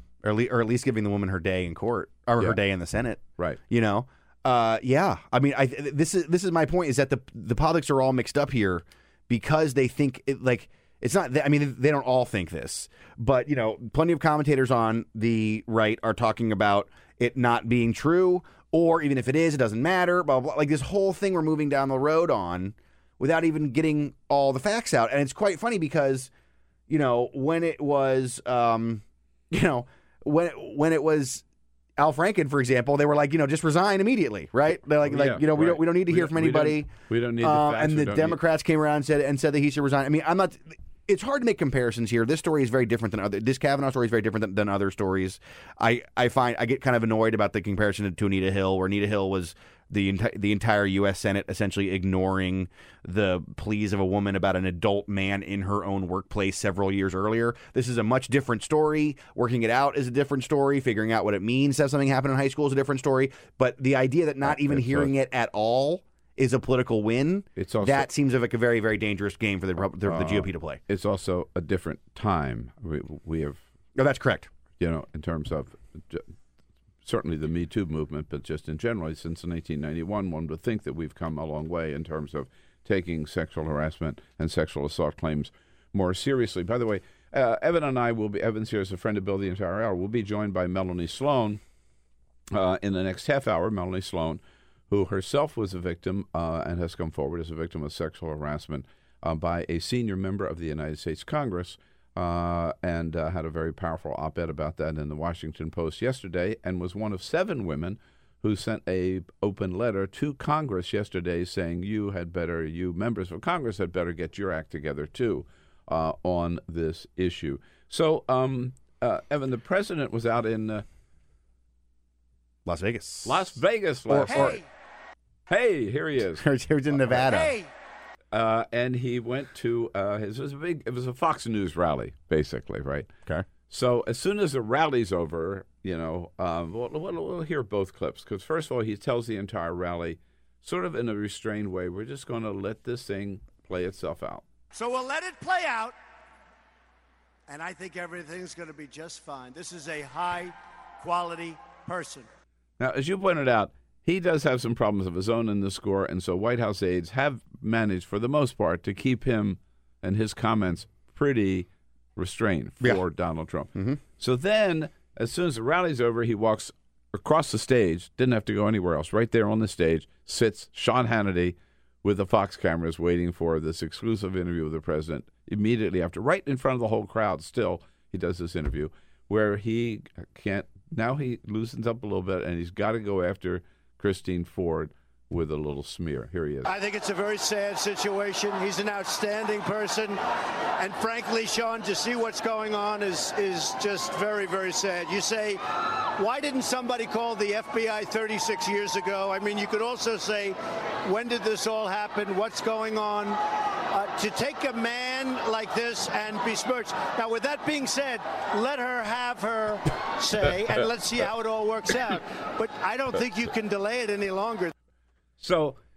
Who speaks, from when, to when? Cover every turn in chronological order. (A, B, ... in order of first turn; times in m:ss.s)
0:00.2-0:26.3 A
0:26.9-0:31.4 A
0:32.0-1:10.8 A
0:35.0-0:38.4 B
1:04.4-1:05.1 B
1:07.6-1:08.1 B
1:10.0-1:13.6 B
1:14.0-1:14.5 A
1:14.8-1:16.3 B
1:17.0-1:31.6 B
1:32.5-2:00.9 B
2:02.7-2:03.6 A
2:03.2-2:04.6 B
2:04.1-2:04.6 A
2:04.3-2:04.6 C
2:05.5-2:06.4 B
2:06.4-2:07.5 A
2:07.1-2:07.7 C
2:08.3-2:13.1 B
2:13.7-2:24.4 B
2:24.7-2:26.0 C
2:27.5-2:32.3 C
2:32.8-3:06.7 B
2:43.7-2:44.0 A
3:06.6-3:10.2 C
3:10.8-3:34.7 C
3:35.4-3:35.8 B